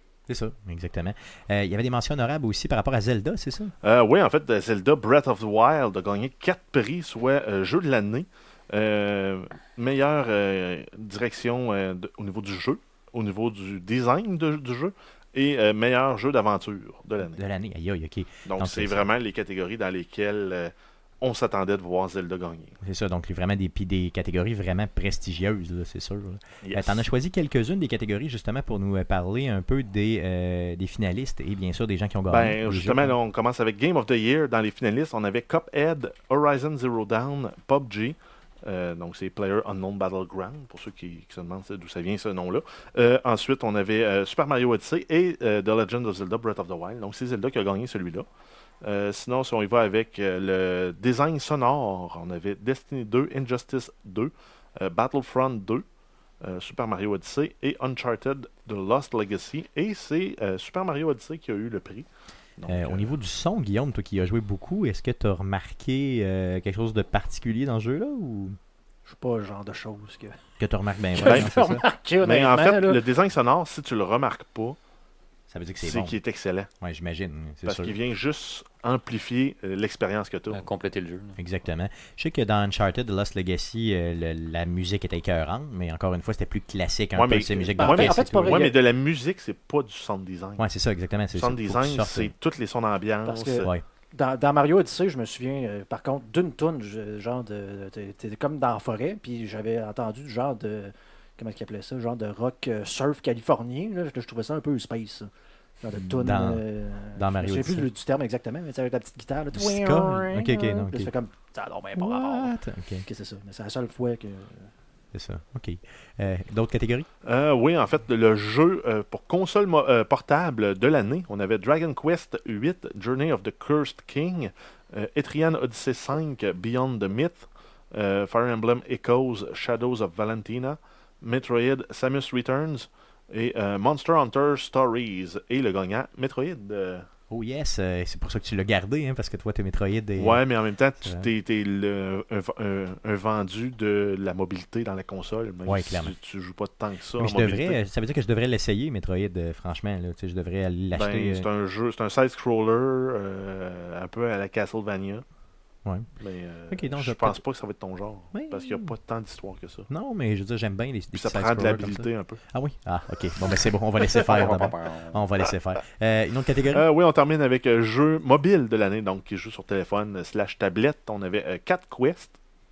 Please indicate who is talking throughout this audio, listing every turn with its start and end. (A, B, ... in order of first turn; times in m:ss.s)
0:00.3-0:03.7 A
0:03.8-0:17.4 B
0:17.3-0:19.1 A
0:18.4-0:22.8 B
0:22.8-0:33.1 A
0:26.6-0:27.0 B
0:32.3-0:48.3 B
0:48.8-0:55.8 B
0:56.4-1:03.1 B
1:02.7-1:08.6 A
1:09.0-1:10.4 C
1:10.6-1:11.8 A
1:11.1-1:13.0 C
1:11.2-1:11.5 B
1:12.2-1:14.8 B
1:15.5-1:16.2 A
1:15.8-1:16.7 B
1:16.8-1:17.9 A
1:17.6-1:20.6 B
1:20.5-1:21.4 D
1:21.4-1:28.6 A
1:27.1-1:30.6 B
1:27.8-1:28.8 C
1:30.6-1:32.3 A
1:31.3-1:33.7 B
1:33.2-1:45.3 C
1:45.8-1:52.5 C
1:45.9-1:47.9 A
1:49.5-1:51.1 A
1:52.0-1:53.0 A
1:53.0-1:54.7 C
1:55.1-1:57.1 A
1:57.2-2:17.1 B
2:17.3-2:20.4 A
2:20.2-2:27.8 B
2:21.0-2:21.3 A
2:25.6-2:26.1 A
2:27.2-2:31.4 A
2:30.9-2:35.2 B
2:35.8-2:36.1 A
2:36.2-2:39.9 B
2:36.7-2:37.4 A
2:38.3-2:38.9 A
2:39.9-2:46.8 A
2:41.1-2:42.4 B
2:44.1-2:45.2 D
2:44.3-2:44.6 B
2:46.7-2:52.4 B